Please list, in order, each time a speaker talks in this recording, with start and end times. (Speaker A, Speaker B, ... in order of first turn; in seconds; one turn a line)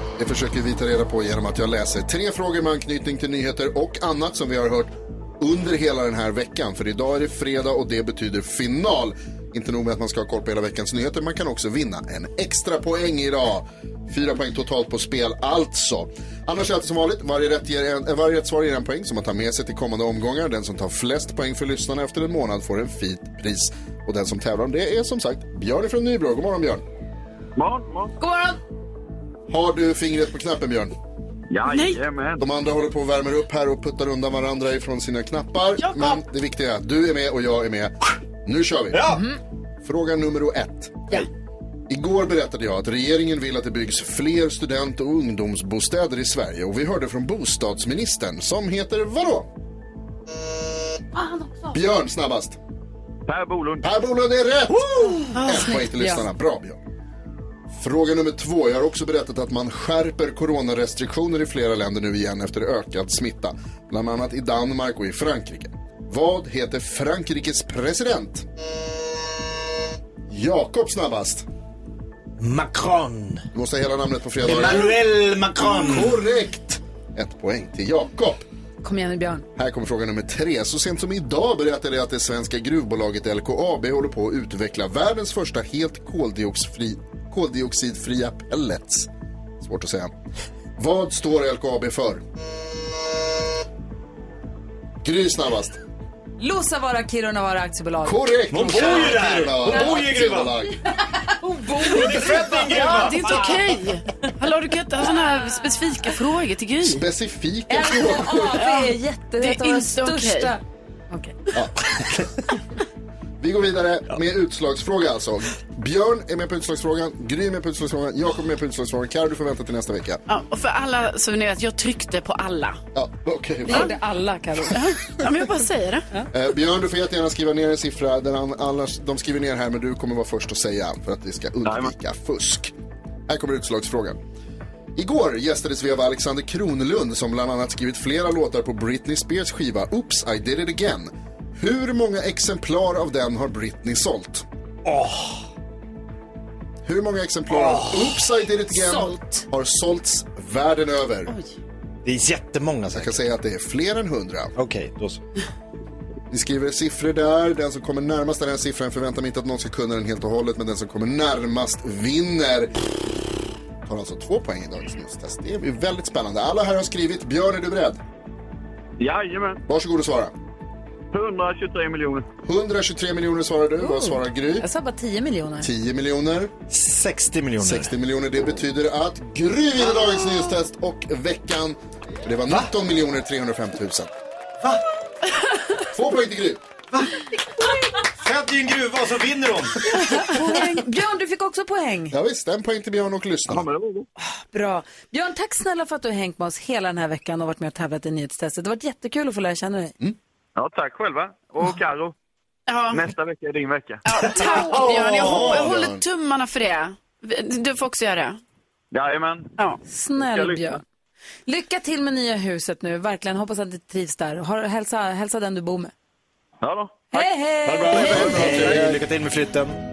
Speaker A: 0.2-26.8
Speaker B: 27.6-28.2
Speaker C: 28.2-28.5
Speaker A: 29.5-30.9
Speaker B: 31.5-32.4
Speaker D: 31.7-32.0
Speaker A: 32.4-39.2
Speaker D: 35.8-36.2
Speaker E: 38.9-39.2
Speaker A: 39.8-41.2
Speaker A: 41.9-49.5
Speaker C: 51.1-51.8
Speaker A: 51.7-52.6
Speaker B: 53.3-53.9
Speaker A: 53.8-56.8
Speaker C: 55.2-56.2
Speaker D: 55.4-55.8
Speaker A: 57.7-68.5
Speaker A: 70.3-71.5
Speaker E: 72.4-73.5
Speaker A: 73.5-75.0
Speaker E: 74.4-76.2
Speaker A: 75.6-78.5
Speaker C: 78.8-79.5
Speaker A: 79.5-89.1
Speaker A: 89.6-90.1
Speaker A: 90.8-92.2
Speaker A: 95.0-95.8
Speaker C: 96.4-98.2
Speaker A: 98.0-100.8
Speaker E: 98.5-100.6
Speaker C: 101.4-103.5
Speaker E: 101.8-103.6
Speaker D: 102.7-107.0
Speaker A: 106.8-108.7
Speaker C: 107.7-110.6
Speaker D: 108.4-110.5
Speaker A: 111.5-112.2
Speaker A: 113.4-120.2
Speaker D: 120.3-122.8
Speaker A: 122.9-123.9
Speaker C: 123.7-124.8
Speaker D: 124.7-126.0
Speaker A: 126.3-132.7
Speaker B: 131.6-131.9
Speaker A: 133.3-134.2
Speaker A: 134.9-144.4
Speaker E: 144.8-145.4
Speaker A: 146.8-151.3
Speaker E: 147.5-148.2
Speaker C: 148.7-149.2
Speaker E: 152.0-153.2
Speaker A: 152.9-154.5
Speaker E: 154.6-155.2
Speaker A: 156.3-162.7
Speaker A: 163.8-168.0
Speaker B: 169.0-169.6
Speaker A: 169.7-170.3
Speaker B: 171.1-172.3
Speaker A: 172.4-174.7
Speaker C: 173.8-175.7
Speaker A: 175.6-176.5
Speaker E: 176.7-177.9
Speaker A: 177.6-184.1
Speaker A: 185.9-186.6
Speaker E: 188.0-190.3
Speaker C: 189.9-192.1
Speaker A: 192.1-193.6
Speaker B: 193.5-194.1
Speaker C: 194.5-199.9
Speaker B: 200.6-202.1
Speaker D: 202.7-203.0
Speaker B: 202.9-204.0
Speaker D: 204.0-208.4
Speaker E: 204.4-205.4
Speaker A: 204.6-206.0
Speaker B: 208.9-209.5
Speaker C: 209.8-210.8
Speaker B: 210.2-210.7
Speaker C: 211.4-215.9
Speaker B: 216.6-217.2
Speaker C: 217.1-218.6
Speaker E: 217.6-219.8
Speaker B: 218.0-219.0